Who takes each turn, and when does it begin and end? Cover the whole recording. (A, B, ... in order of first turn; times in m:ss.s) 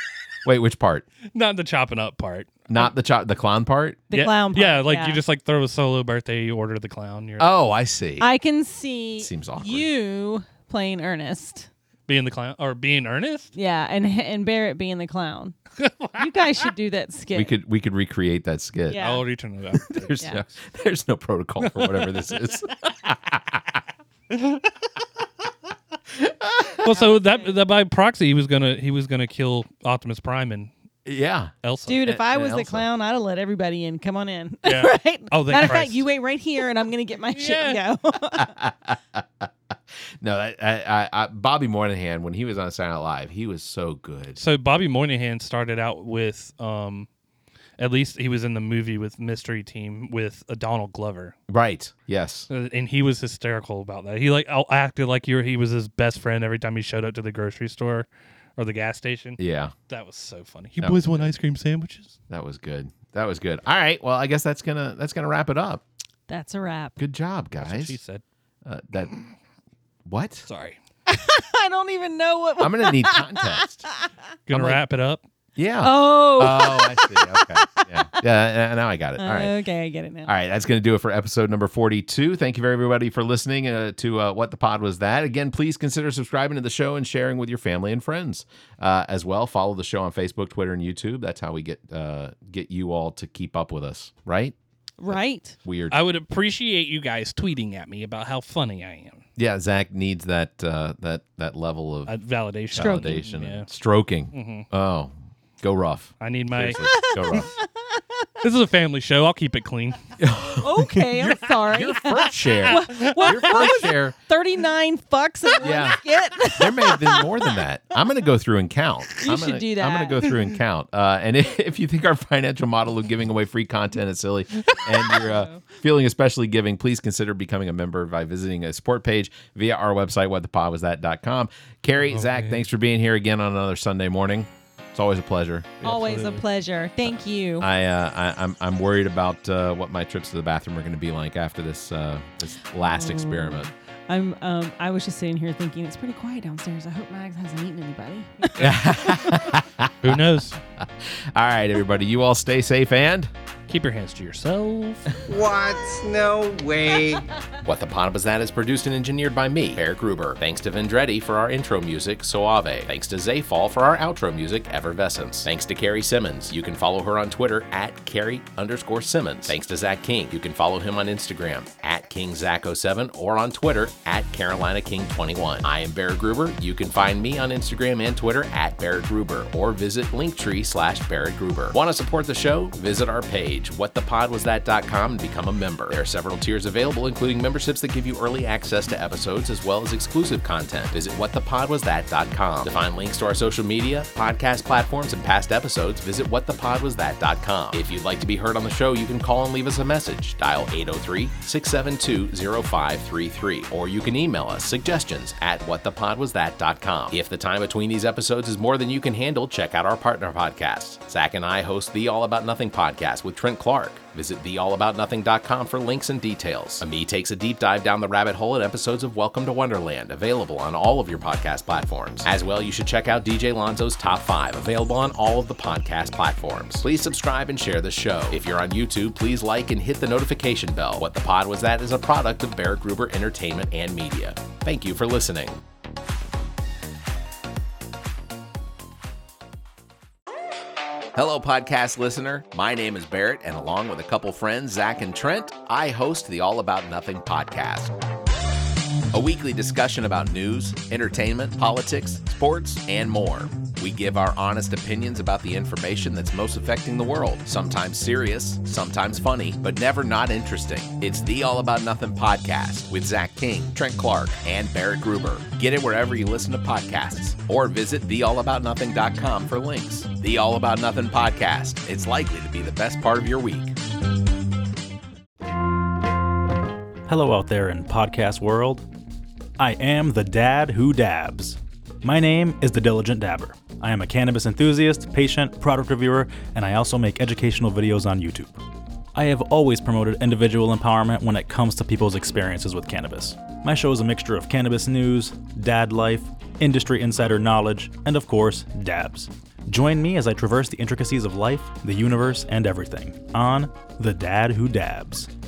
0:00.4-0:01.0 A
0:01.3-0:02.7 B
0:02.7-0:04.1 A
0:04.1-0:05.2 C
0:04.1-0:07.5 B
0:07.4-0:08.3 A
0:08.2-0:11.7 C
0:09.2-0:09.9 A
0:12.1-0:13.5 B
0:13.5-0:15.6 C
0:15.8-0:16.3 B
0:16.2-0:17.6 C
0:17.3-0:19.1 A
0:18.9-0:19.2 C
0:19.0-0:20.5 B
0:19.9-0:23.4 A
0:21.6-0:22.6 B
0:26.2-0:26.8 A
0:26.8-0:30.7 B
0:26.9-0:27.6 C
0:31.0-0:31.5 A
0:31.6-0:32.1 B
0:31.8-0:38.5 C
0:32.0-0:32.9 A
0:34.6-0:36.0 B
0:37.3-0:37.8 B
0:38.4-0:39.4 A
0:40.2-0:44.4 A
0:44.4-0:47.1 B
0:47.8-0:51.4 B
0:51.5-0:52.5 A
0:52.5-1:02.2 B
0:59.4-0:59.7 A
1:00.8-1:01.3 A
1:02.3-1:05.8 A
1:06.3-1:07.0 C
1:07.0-1:08.0 A
1:07.6-1:08.2 B
1:08.6-1:09.1 A
1:10.0-1:10.5 A
1:10.5-1:10.8 B
1:11.1-1:13.8 C
1:12.6-1:13.8 A
1:14.5-1:15.2 B
1:14.5-1:14.8 A
1:15.6-1:19.5 A
1:15.8-1:17.6 C
1:19.2-1:20.3 C
1:20.2-1:34.5 A
1:35.0-1:35.6 C
1:35.1-1:36.0 A
1:35.9-1:39.2 B
1:39.4-1:42.2 A
1:42.0-1:43.7 B
1:42.7-1:47.5 A
1:42.8-1:43.2 C
1:44.3-1:44.7 B
1:46.2-1:47.4 B
1:46.9-1:48.0 C
1:48.4-1:50.0 B
1:50.2-1:51.1 A
1:50.6-1:57.4 C
1:51.7-1:54.1 A
1:52.5-1:53.8 B
1:55.6-1:56.0 A
1:56.5-2:15.7 A
1:59.2-2:00.3 C
2:04.9-2:05.6 C
2:12.1-2:12.6 B
2:15.8-2:16.4 B
2:15.8-2:17.7 C
2:17.6-2:23.7 A
2:22.8-2:29.4 C
2:28.6-2:30.2 A
2:30.0-2:30.6 B
2:31.3-2:33.3 A
2:33.7-2:35.0 B
2:37.6-3:55.6 A
4:01.1-4:07.9 A
4:09.1-4:33.7 A
4:37.1-4:38.8 D
4:39.6-4:48.6 D
4:49.1-5:05.3 D